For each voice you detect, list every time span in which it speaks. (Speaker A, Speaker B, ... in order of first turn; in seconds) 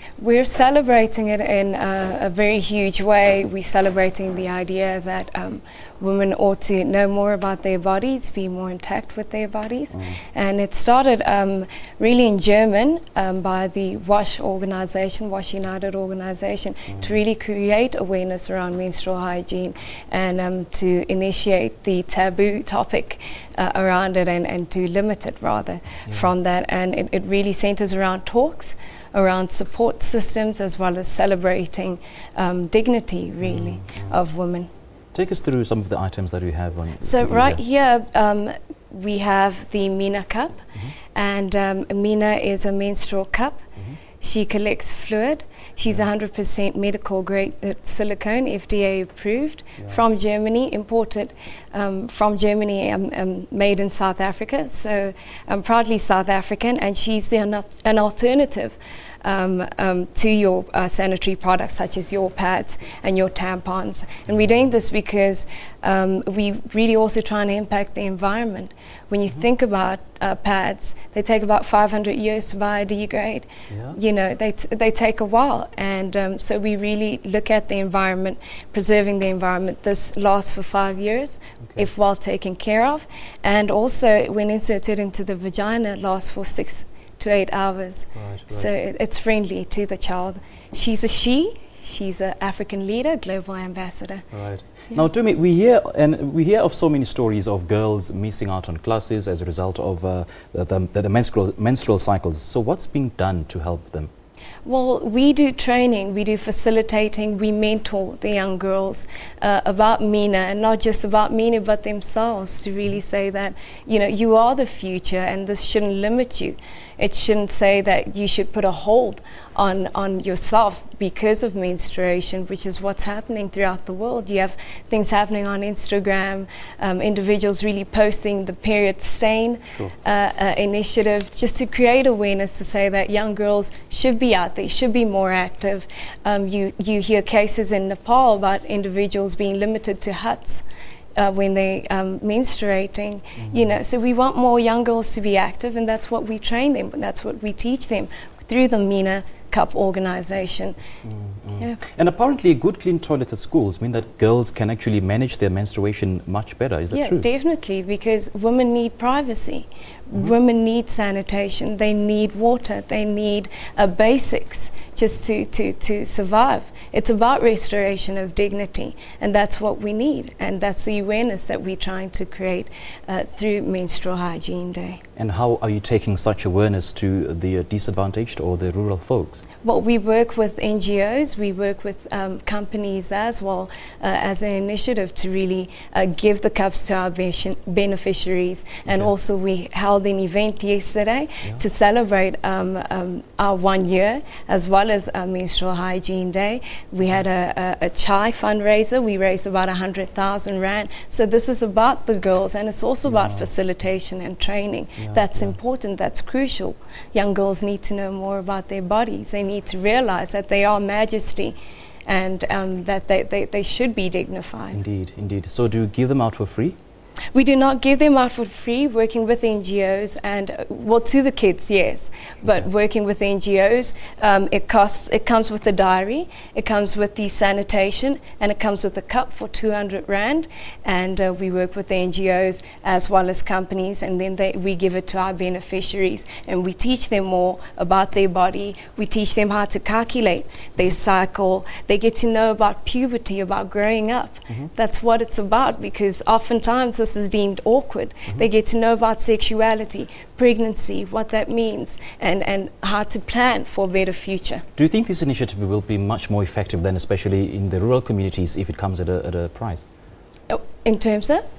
Speaker A: 0.2-34.7, 37.0-43.6, 44.2-94.3, 104.6-140.6, 141.2-150.8, 156.9-175.0, 179.6-214.8, 217.3-254.7, 260.5-261.4
Speaker B: 9.9-10.2, 16.9-17.2, 33.4-34.1, 35.1-37.6, 73.7-74.0, 81.6-81.9, 88.1-88.7, 94.3-104.1, 143.4-143.7, 151.0-157.2, 175.2-179.4, 203.1-203.5, 205.0-205.6, 214.7-216.8, 254.8-259.8